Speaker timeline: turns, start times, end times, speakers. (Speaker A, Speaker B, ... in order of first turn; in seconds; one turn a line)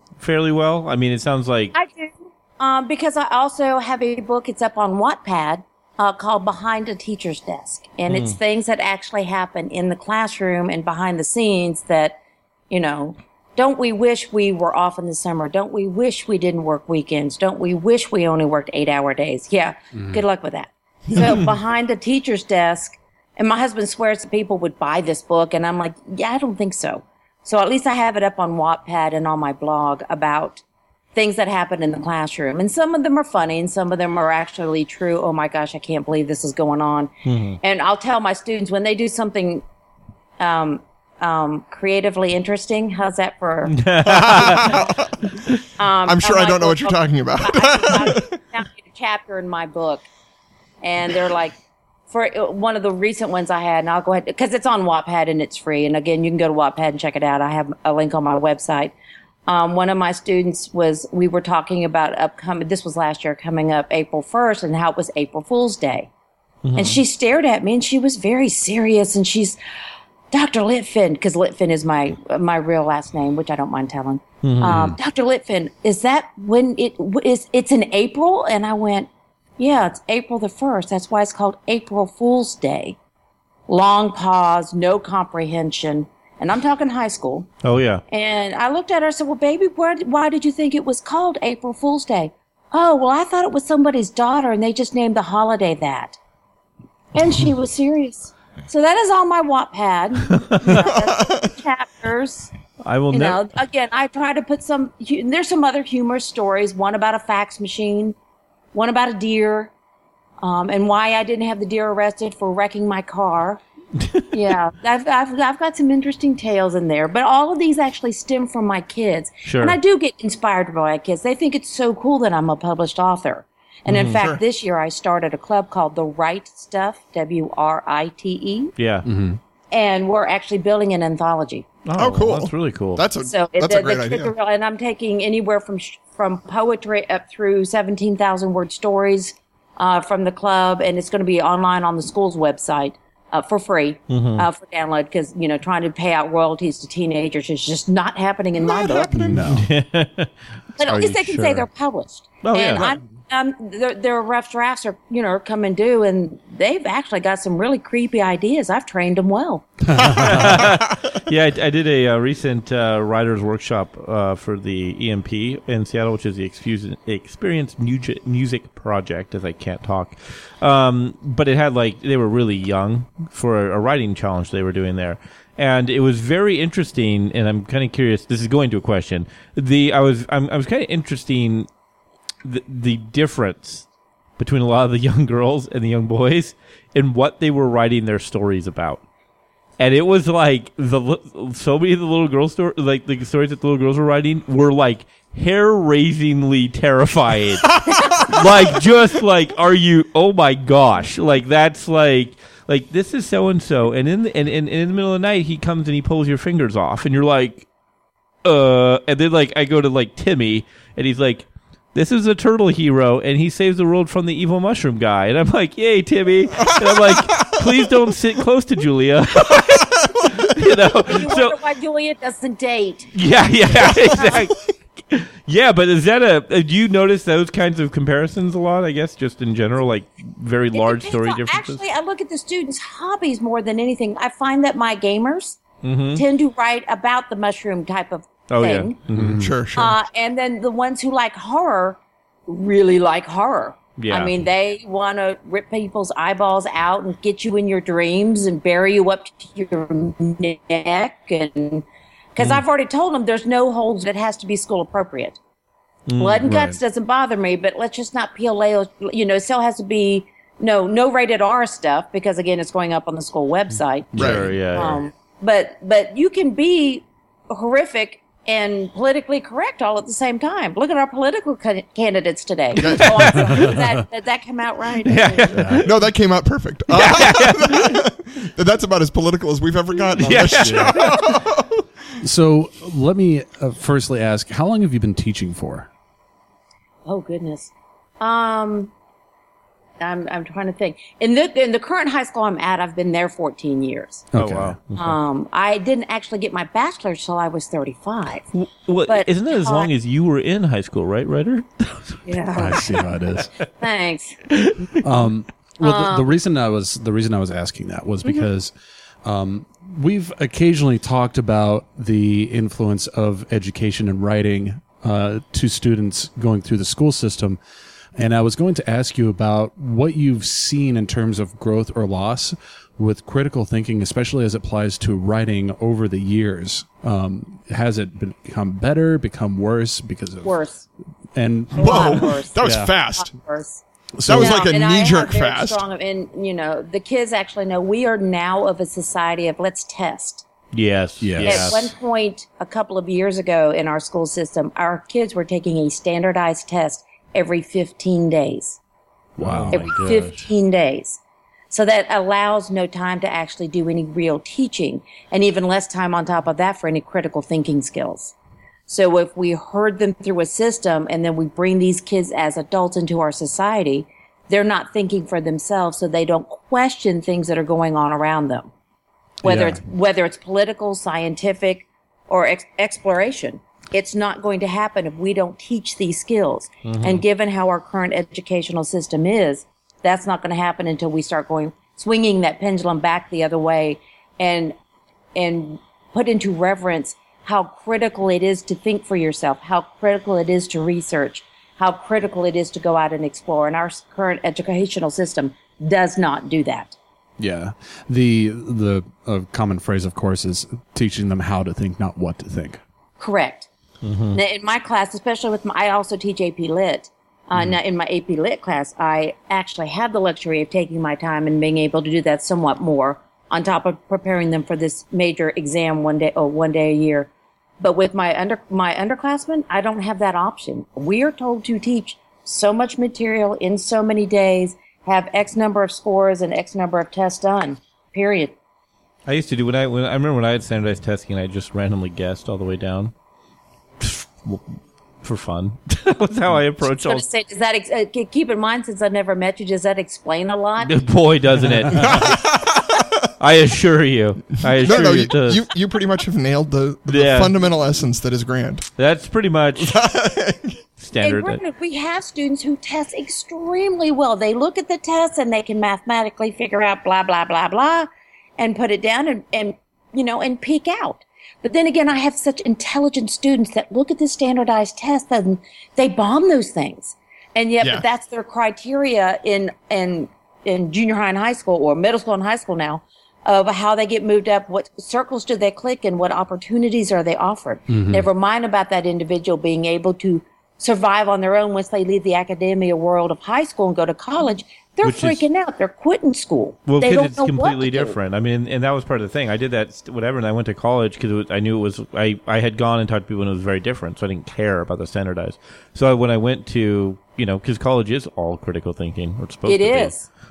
Speaker A: 0.2-1.7
Speaker B: 1.7-12.2
Speaker A: 8.1-8.4
Speaker B: 12.7-30.6
Speaker C: 19.9-20.2
Speaker D: 21.1-21.4
Speaker B: 31.1-39.6
Speaker A: 37.2-37.6
Speaker B: 40.4-45.1
Speaker A: 43.7-44.8
Speaker D: 44.0-45.1
Speaker B: 45.8-50.1
Speaker D: 46.0-48.4
Speaker B: 50.8-51.6
Speaker B: 52.1-58.9
Speaker B: 59.5-66.1
Speaker A: 66.6-67.0
Speaker B: 66.8-69.6
Speaker B: 70.3-83.0
Speaker A: 74.4-75.0
Speaker B: 83.7-87.5
Speaker A: 87.6-88.0
Speaker B: 88.1-96.2
Speaker B: 97.1-102.5
Speaker A: 100.3-100.8
Speaker D: 100.7-101.5
Speaker A: 102.8-103.4
Speaker B: 103.1-108.2
Speaker B: 108.7-109.7
Speaker B: 110.4-113.6
Speaker B: 114.3-128.7
Speaker A: 119.5-119.8
Speaker A: 123.9-124.2
Speaker D: 124.2-124.4
Speaker A: 128.8-129.1
Speaker C: 129.0-129.4
Speaker B: 129.7-131.7
Speaker A: 131.8-133.0
Speaker D: 132.0-134.3
Speaker B: 133.2-149.3
Speaker A: 144.1-144.5
Speaker D: 148.6-149.6
Speaker C: 149.2-149.7
Speaker A: 149.5-151.7
Speaker B: 150.8-160.4
Speaker A: 152.4-152.9
Speaker C: 159.9-160.6
Speaker A: 160.0-181.7
Speaker A: 182.4-183.9
Speaker A: 184.4-189.0
Speaker A: 189.8-207.7
Speaker D: 197.9-198.2
Speaker A: 208.4-221.6
Speaker D: 216.6-217.7
Speaker D: 219.6-220.5
Speaker B: 221.0-223.1
Speaker A: 223.1-231.8
Speaker B: 223.7-224.5
Speaker B: 230.7-235.6
Speaker A: 235.8-236.2
Speaker B: 236.1-239.0
Speaker A: 238.5-239.5
Speaker C: 239.1-239.5
Speaker D: 239.3-240.0
Speaker B: 239.8-255.4
Speaker A: 244.0-244.3
Speaker A: 256.1-256.8
Speaker B: 256.2-275.6
Speaker C: 264.1-264.6
Speaker D: 264.2-264.6
Speaker A: 264.2-265.0
Speaker A: 272.8-273.8
Speaker D: 272.8-273.3
Speaker A: 275.0-275.9
Speaker C: 275.5-275.9
Speaker D: 275.8-281.8
Speaker A: 276.9-278.1
Speaker A: 280.2-281.3
Speaker C: 280.2-281.1
Speaker C: 282.2-285.9
Speaker B: 287.1-288.9
Speaker B: 290.0-294.3
Speaker C: 294.3-294.8
Speaker A: 294.4-295.2
Speaker B: 294.9-298.5
Speaker A: 298.5-302.8
Speaker B: 299.1-299.9
Speaker B: 302.3-303.1
Speaker C: 302.6-303.5
Speaker B: 303.7-304.4
Speaker A: 304.5-305.0
Speaker C: 305.0-308.7
Speaker B: 305.8-306.3
Speaker C: 309.2-317.6
Speaker C: 318.2-330.6
Speaker B: 330.4-330.9
Speaker C: 331.4-332.9
Speaker B: 331.7-340.4
Speaker D: 331.8-333.3
Speaker C: 334.2-334.7
Speaker D: 334.2-335.9
Speaker A: 340.7-341.9
Speaker C: 341.2-341.9
Speaker B: 341.4-348.8
Speaker C: 349.4-349.9
Speaker A: 349.4-350.4
Speaker B: 349.7-358.3
Speaker B: 358.9-368.7
Speaker B: 369.4-384.8
Speaker C: 369.4-369.8
Speaker A: 376.9-377.2
Speaker B: 385.4-397.0
Speaker C: 397.4-402.8
Speaker B: 403.2-403.7
Speaker A: 404.0-404.4
Speaker B: 404.3-428.6
Speaker A: 429.3-433.1
Speaker A: 434.0-434.6
Speaker A: 435.2-437.2
Speaker B: 436.8-441.0
Speaker A: 440.8-442.4
Speaker D: 441.9-443.1
Speaker A: 443.4-445.6
Speaker D: 444.8-448.9
Speaker A: 447.1-447.5
Speaker A: 449.0-450.0
Speaker D: 449.8-450.8
Speaker A: 451.0-451.6
Speaker B: 451.2-488.2
Speaker D: 467.8-468.1
Speaker C: 477.9-478.3
Speaker A: 485.0-485.4
Speaker A: 486.9-500.2
Speaker B: 499.7-500.3